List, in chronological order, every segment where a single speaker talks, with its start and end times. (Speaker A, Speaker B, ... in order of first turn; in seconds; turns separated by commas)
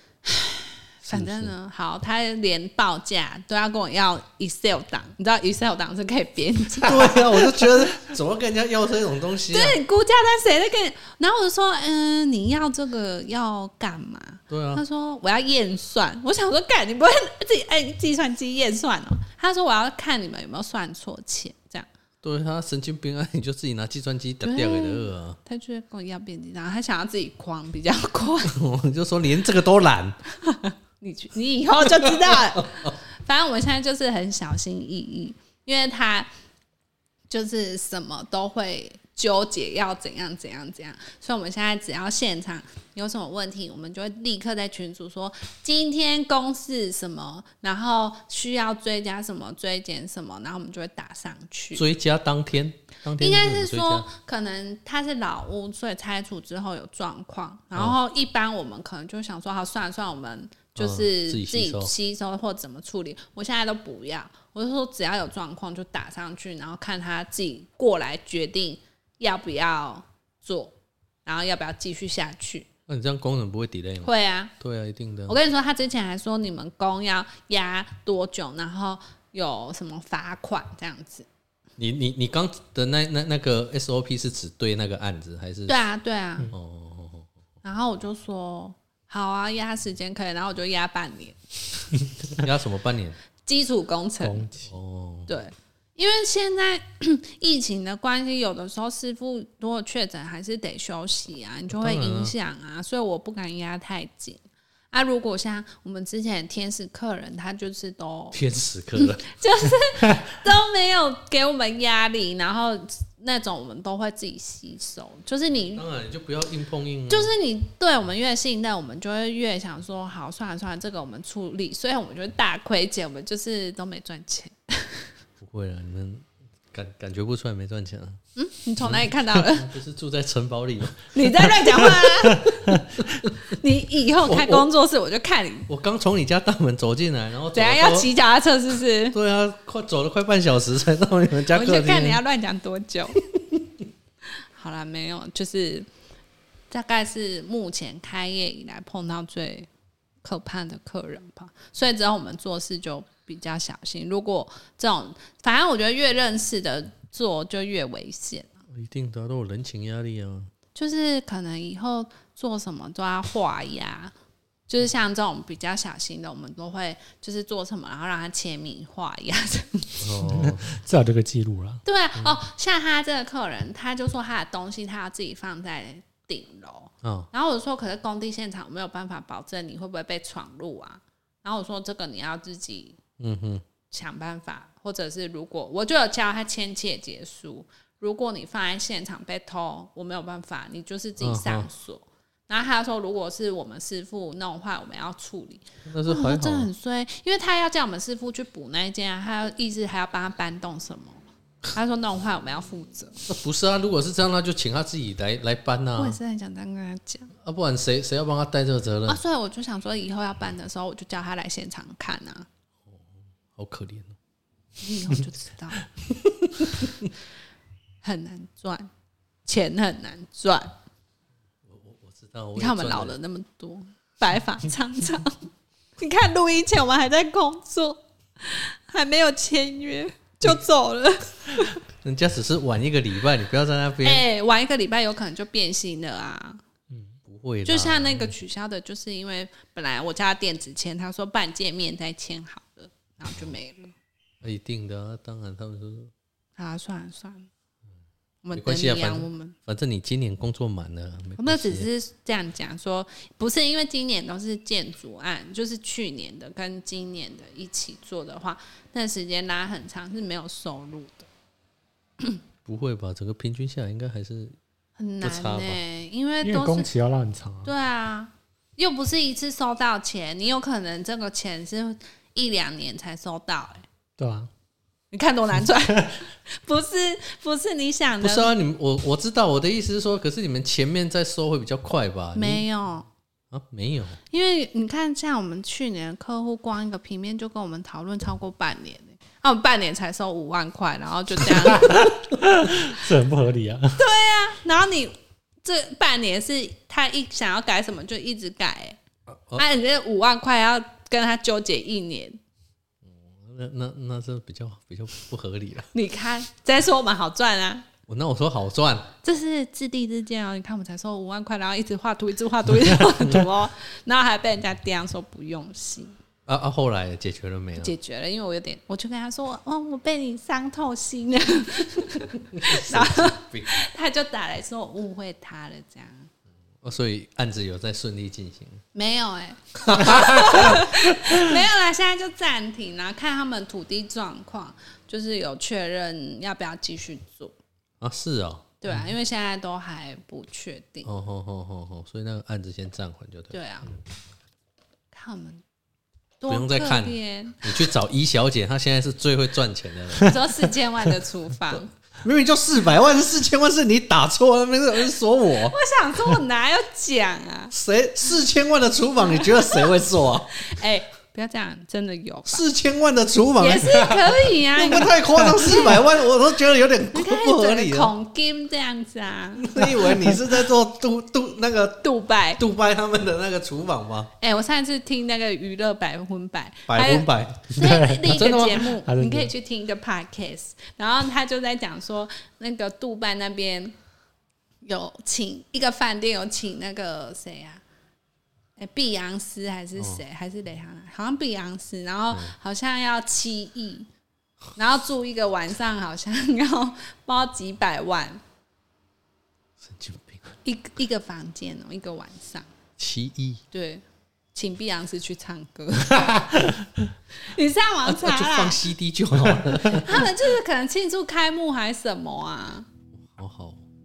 Speaker A: 0.3-7.6, Speaker B: 1.1-1.5, Speaker B: 6.8-9.8, Speaker A: 9.5-21.9, Speaker B: 14.5-14.8, Speaker B: 22.2-25.4, Speaker A: 24.4-28.6, Speaker B: 28.5-30.2, Speaker A: 30.4-36.3, Speaker B: 31.9-32.9, Speaker A: 37.3-51.8, Speaker B: 51.8-54.1, Speaker A: 53.2-72.7, Speaker B: 60.8-61.9, Speaker B: 72.9-75.4, Speaker A: 74.0-74.5, Speaker A: 75.3-81.3, Speaker B: 81.8-85.8, Speaker A: 85.7-86.5, Speaker B: 86.5-87.3, Speaker A: 87.6-91.4, Speaker B: 92.4-93.2, Speaker A: 93.5-94.5, Speaker C: 94.2-94.7, Speaker B: 94.7-95.3, Speaker A: 95.3-104.4, Speaker B: 101.7-102.3, Speaker A: 104.9-108.4, Speaker B: 108.3-109.3, Speaker A: 109.0-115.8, Speaker B: 115.8-117.3, Speaker A: 117.1-125.1, Speaker B: 125.4-128.2, Speaker A: 128.4-129.7, Speaker B: 128.8-132.6, Speaker A: 131.1-132.8, Speaker A: 133.4-135.7, Speaker B: 134.3-134.7, Speaker B: 135.7-138.1, Speaker A: 137.5-139.2, Speaker B: 139.1-142.2, Speaker A: 141.5-143.2, Speaker A: 144.6-145.9, Speaker A: 146.7-149.7, Speaker A: 150.2-158.5, Speaker B: 158.7-160.5, Speaker A: 160.8-164.1, Speaker A: 164.7-170.2, Speaker B: 170.0-170.7, Speaker C: 170.3-171.8, Speaker A: 171.8-183.0, Speaker B: 177.0-177.3, Speaker B: 183.2-183.6, Speaker A: 183.9-203.2, Speaker B: 191.2-191.7, Speaker B: 195.9-196.7, Speaker B: 203.3-206.2, Speaker A: 206.0-207.3, Speaker B: 207.4-209.2, Speaker A: 209.1-212.5, Speaker B: 213.6-214.2, Speaker A: 214.8-215.9, Speaker B: 216.2-217.1, Speaker A: 218.0-218.9, Speaker A: 219.5-220.8, Speaker B: 221.7-223.2, Speaker A: 222.6-225.4, Speaker A: 226.0-231.8, Speaker B: 232.0-234.2, Speaker A: 234.0-236.6, Speaker B: 237.3-238.3, Speaker A: 237.7-243.9, Speaker B: 244.4-246.1, Speaker A: 246.6-247.5, Speaker A: 248.4-249.6, Speaker B: 248.5-251.9, Speaker A: 251.4-261.3, Speaker B: 262.6-264.6, Speaker A: 265.0-266.9, Speaker B: 265.2-265.8, Speaker C: 266.4-267.7, Speaker A: 267.6-273.9, Speaker C: 274.2-274.5, Speaker A: 275.1-278.5, Speaker B: 278.2-282.6, Speaker A: 282.4-283.1, Speaker B: 283.5-284.2, Speaker A: 284.3-292.1, Speaker C: 291.7-294.0, Speaker A: 294.0-299.0, Speaker B: 299.3-299.6, Speaker A: 299.6-302.4, Speaker B: 303.1-305.9, Speaker A: 305.9-307.9, Speaker B: 308.1-309.1, Speaker A: 309.2-316.2, Speaker B: 316.5-317.9, Speaker A: 317.8-326.3, Speaker B: 322.5-323.7, Speaker B: 326.8-328.8, Speaker A: 328.9-337.6, Speaker B: 329.9-330.9, Speaker B: 338.0-338.7, Speaker A: 338.8-341.1, Speaker B: 341.1-343.6, Speaker A: 343.5-343.9, Speaker A: 345.1-345.6, Speaker A: 346.4-347.9, Speaker B: 346.5-350.4, Speaker A: 350.2-351.9, Speaker B: 351.7-355.8, Speaker A: 355.7-357.7, Speaker B: 357.7-360.7, Speaker A: 359.3-359.9, Speaker A: 360.6-362.6, Speaker B: 362.5-368.1, Speaker A: 363.6-366.0, Speaker A: 367.1-370.0, Speaker B: 369.6-374.3, Speaker A: 372.0-372.6, Speaker A: 374.4-383.9, Speaker B: 376.9-378.9, Speaker C: 377.8-378.3, Speaker C: 379.0-379.5, Speaker A: 384.8-387.8, Speaker A: 388.8-394.1, Speaker A: 394.8-398.4, Speaker B: 399.8-400.5, Speaker A: 400.6-402.7, Speaker B: 403.0-403.6, Speaker A: 403.7-404.0, Speaker A: 404.6-406.7, Speaker A: 407.4-408.9, Speaker B: 408.0-410.3, Speaker A: 409.9-412.9, Speaker B: 413.2-413.9